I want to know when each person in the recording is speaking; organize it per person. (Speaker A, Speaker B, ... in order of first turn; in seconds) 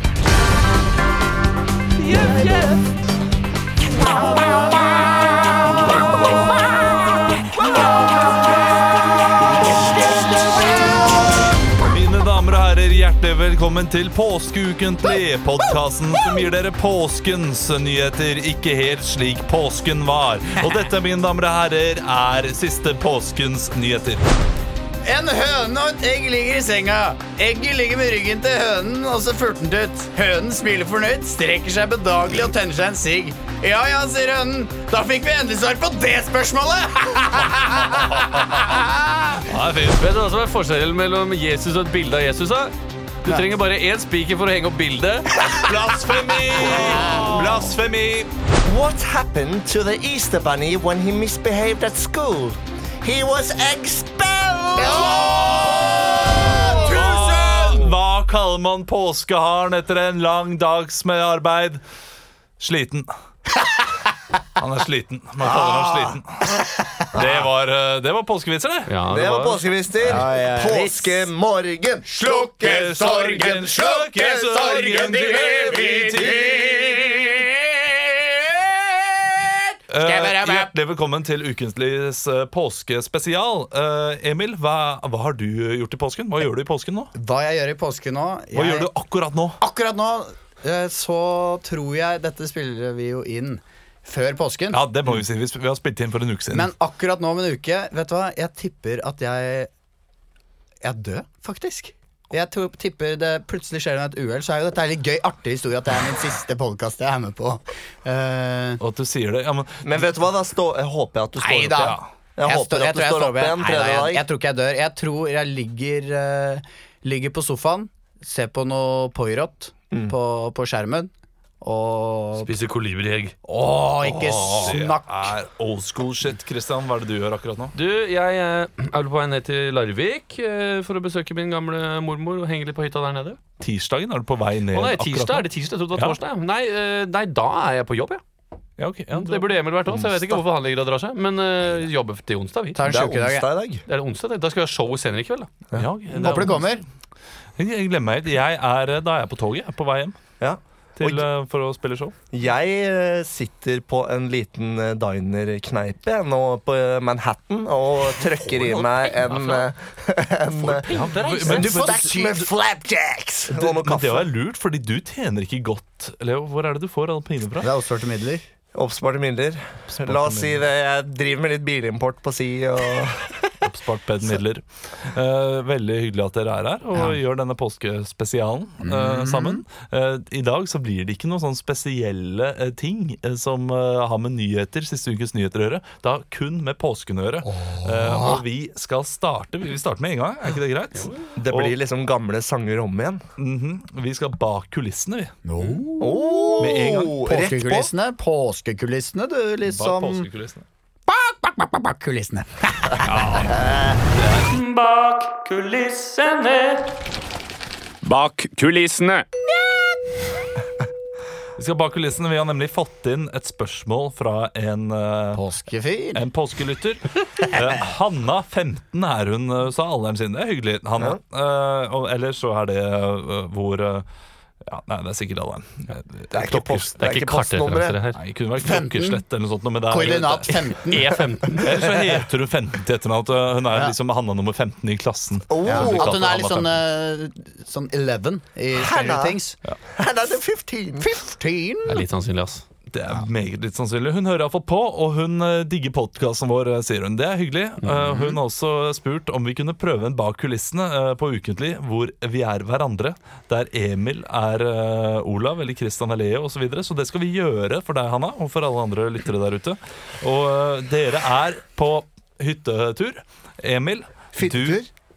Speaker A: 2.0-2.8, 40.0-45.3, 68.9-69.7, 122.4-123.3, 127.8-133.4, 134.7-138.2, 139.1-142.8, 143.9-145.5, 158.7-159.7, 160.6-161.7, 204.5-206.9, 208.0-209.2, 227.0-228.2, 230.8-231.9, 241.9-242.6, 247.9-248.2
Speaker B: 9.8-11.2, 48.6-56.8, 67.1-67.5, 69.1-72.1, 109.8-114.2, 139.9-140.4, 142.8-143.8, 150.4-151.3, 152.3-164.3, 168.7-173.6, 191.4-193.2, 196.0-197.9, 203.4-203.9, 226.3-228.0, 235.5-236.2, 238.7-239.4, 239.9-241.1, 264.4-264.9
Speaker C: 11.8-24.3, 38.2-38.6, 39.4-40.1, 45.5-48.3, 55.1-55.8, 56.7-61.8, 62.6-63.1, 64.6-66.4, 67.1-69.0, 72.4-77.0, 79.9-87.1, 88.5-89.6, 94.7-96.7, 108.8-110.0, 124.0-127.8, 133.6-136.2, 138.8-139.6, 145.8-146.8, 147.6-150.2, 151.0-152.2, 160.8-162.4, 163.5-167.7, 169.9-170.6, 173.6-191.8, 193.4-195.4, 196.6-197.2, 199.7-200.7, 203.1-204.6, 211.6-215.4, 216.1-224.1, 224.7-226.9, 228.2-230.5, 231.5-236.7, 242.9-264.8
Speaker D: 25.1-39.5, 46.9-47.5, 54.9-55.9, 56.5-57.8, 65.5-67.0, 70.0-71.3, 72.1-80.7, 87.2-88.9, 89.6-94.8, 96.5-99.7, 100.8-108.8, 111.4-121.1, 121.6-122.5, 123.5-125.3, 142.8-143.5, 146.1-146.8, 161.4-162.5, 167.6-168.4, 178.8-179.6, 187.4-188.4, 195.5-200.3, 201.1-203.4, 215.3-216.2, 228.6-229.2, 229.9-231.2, 235.7-239.6, 241.0-242.0